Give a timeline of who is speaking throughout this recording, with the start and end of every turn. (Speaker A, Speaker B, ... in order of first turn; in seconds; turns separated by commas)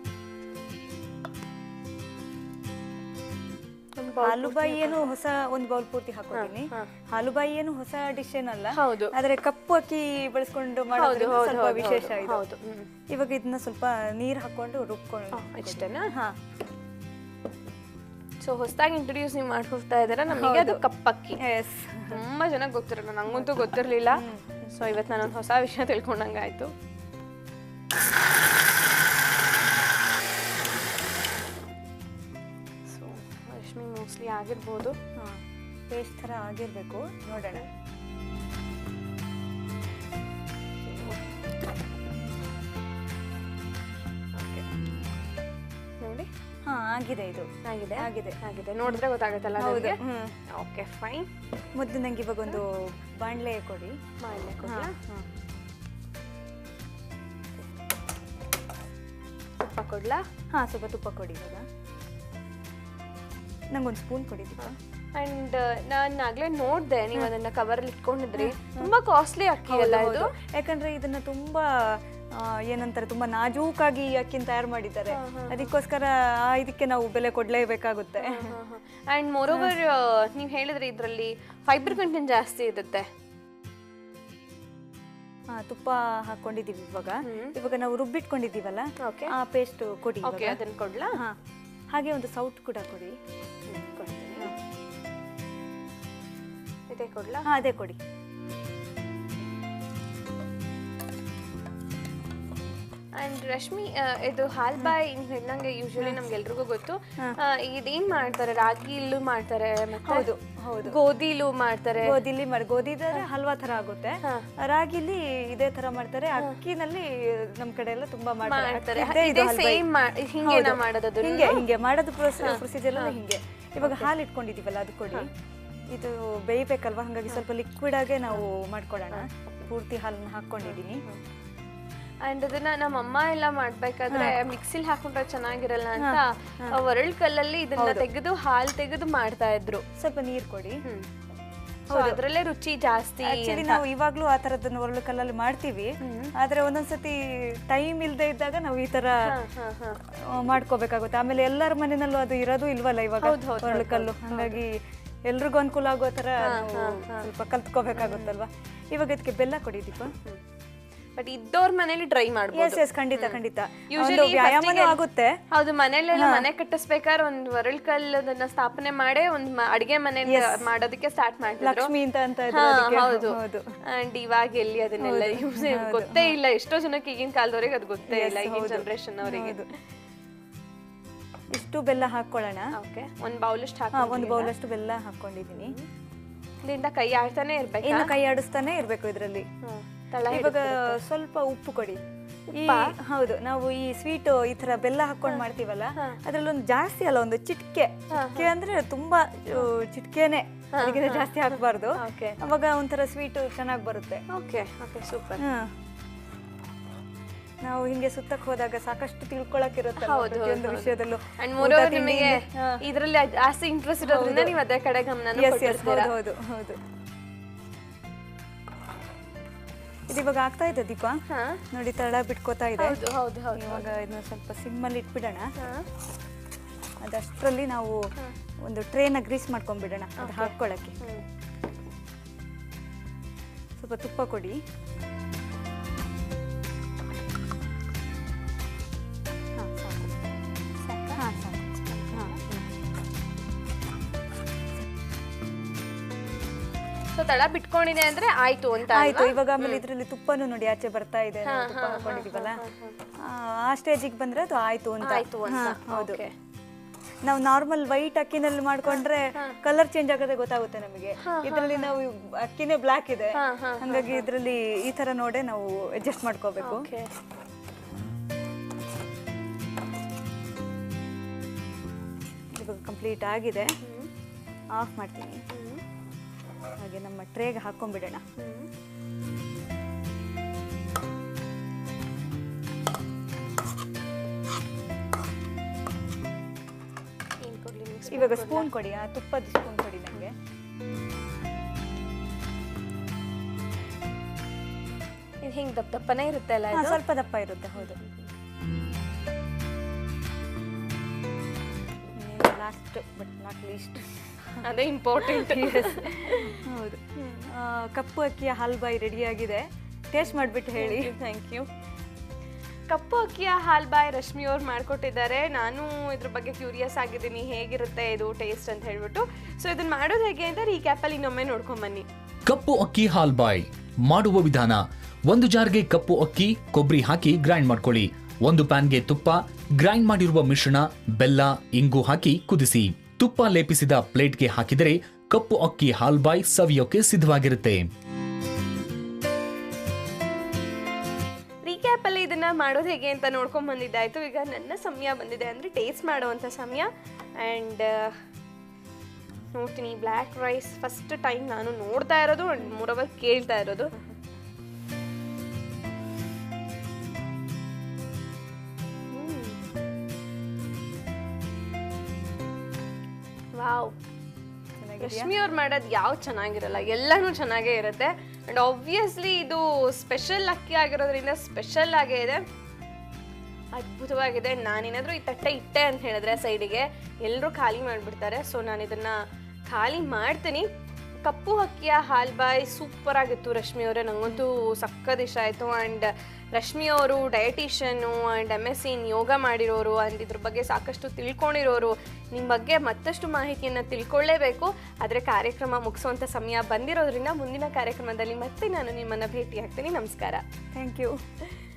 Speaker A: 4.0-5.1, Speaker B: 4.2-12.4, Speaker A: 6.3-6.9, Speaker A: 8.7-9.1, Speaker A: 10.9-12.9, Speaker B: 13.1-16.4, Speaker A: 15.3-16.1, Speaker A: 18.4-21.4, Speaker B: 20.3-20.8, Speaker B: 21.4-22.2, Speaker A: 22.1-26.7, Speaker B: 23.3-24.7, Speaker A: 32.9-35.0, Speaker B: 35.2-37.7, Speaker A: 40.8-41.2, Speaker A: 44.4-44.6, Speaker A: 46.0-46.3, Speaker B: 46.6-49.0, Speaker A: 47.6-51.3, Speaker B: 49.6-50.4, Speaker B: 51.8-54.0, Speaker A: 54.2-55.0, Speaker B: 54.6-55.3, Speaker A: 59.6-60.2, Speaker B: 60.5-61.7, Speaker B: 63.7-64.8, Speaker A: 64.6-70.3, Speaker B: 68.4-68.9, Speaker B: 69.7-78.5, Speaker A: 75.1-75.7, Speaker A: 78.2-83.1, Speaker B: 85.5-90.6, Speaker A: 87.2-87.5, Speaker A: 89.0-89.3, Speaker A: 90.2-91.2, Speaker B: 91.9-93.2, Speaker A: 93.7-94.5, Speaker A: 96.9-97.5, Speaker B: 97.5-98.0, Speaker A: 103.2-110.3, Speaker B: 110.0-111.0, Speaker A: 110.8-112.2, Speaker B: 112.0-119.9, Speaker A: 118.5-121.7, Speaker B: 120.4-125.3, Speaker A: 122.4-123.2, Speaker A: 123.8-124.1, Speaker B: 125.9-131.0, Speaker A: 130.7-131.2, Speaker A: 132.2-139.8, Speaker B: 134.1-134.4, Speaker B: 136.0-136.8, Speaker B: 137.8-138.1, Speaker B: 140.0-140.8, Speaker A: 141.9-143.8, Speaker B: 141.9-142.2, Speaker B: 143.2-149.4, Speaker A: 146.0-146.3, Speaker A: 149.2-150.0, Speaker B: 150.1-160.1, Speaker A: 153.2-154.6, Speaker A: 156.4-157.3, Speaker A: 158.0-158.3, Speaker A: 161.2-163.4, Speaker B: 162.5-165.4, Speaker A: 163.9-165.0, Speaker A: 165.5-171.9, Speaker B: 166.1-166.5, Speaker B: 170.2-170.7, Speaker B: 171.6-173.7, Speaker A: 172.5-179.8, Speaker B: 175.0-176.4, Speaker B: 178.1-179.7, Speaker B: 181.5-182.7, Speaker A: 182.7-184.5, Speaker B: 183.9-185.8, Speaker A: 185.5-185.9, Speaker A: 186.6-188.2, Speaker B: 187.8-189.5, Speaker A: 189.6-191.0, Speaker B: 190.3-192.0, Speaker A: 192.5-192.9, Speaker B: 192.6-204.2, Speaker A: 195.9-196.2, Speaker A: 198.1-198.5, Speaker A: 200.7-202.4, Speaker A: 204.3-205.4, Speaker B: 205.4-205.7, Speaker B: 207.6-212.8, Speaker A: 210.0-216.1, Speaker B: 214.0-214.6, Speaker B: 215.3-216.8, Speaker B: 220.1-221.2, Speaker A: 221.3-221.6, Speaker B: 221.7-223.0, Speaker A: 222.8-223.9, Speaker B: 223.6-225.5, Speaker A: 225.6-225.9, Speaker B: 227.0-228.0, Speaker B: 228.6-231.0, Speaker A: 230.2-231.2, Speaker B: 233.8-234.6, Speaker B: 239.6-240.2, Speaker B: 240.8-242.6, Speaker A: 240.9-242.5, Speaker A: 247.1-249.8, Speaker B: 248.9-252.6, Speaker A: 251.4-253.0, Speaker B: 253.2-256.2, Speaker A: 255.0-256.3, Speaker B: 257.2-266.9, Speaker A: 261.2-261.9, Speaker A: 263.3-264.3, Speaker A: 266.6-267.1, Speaker B: 272.6-273.7, Speaker A: 273.8-274.1, Speaker B: 274.8-275.4, Speaker A: 275.5-275.8, Speaker B: 276.8-278.2, Speaker A: 278.4-278.7, Speaker A: 287.4-288.7, Speaker B: 288.1-290.3, Speaker A: 295.4-297.0, Speaker B: 296.7-298.0, Speaker A: 297.8-298.2, Speaker B: 302.1-304.6, Speaker A: 304.6-306.6, Speaker B: 305.2-311.1, Speaker A: 307.2-307.5, Speaker A: 310.8-311.7, Speaker A: 312.9-322.1, Speaker C: 322.5-337.9, Speaker A: 341.6-348.2, Speaker A: 349.5-354.1, Speaker A: 359.1-359.6, Speaker A: 363.6-364.0, Speaker B: 364.8-365.3, Speaker A: 365.0-372.4, Speaker A: 373.8-379.1, Speaker A: 379.7-380.7, Speaker A: 381.2-400.4, Speaker B: 400.7-401.2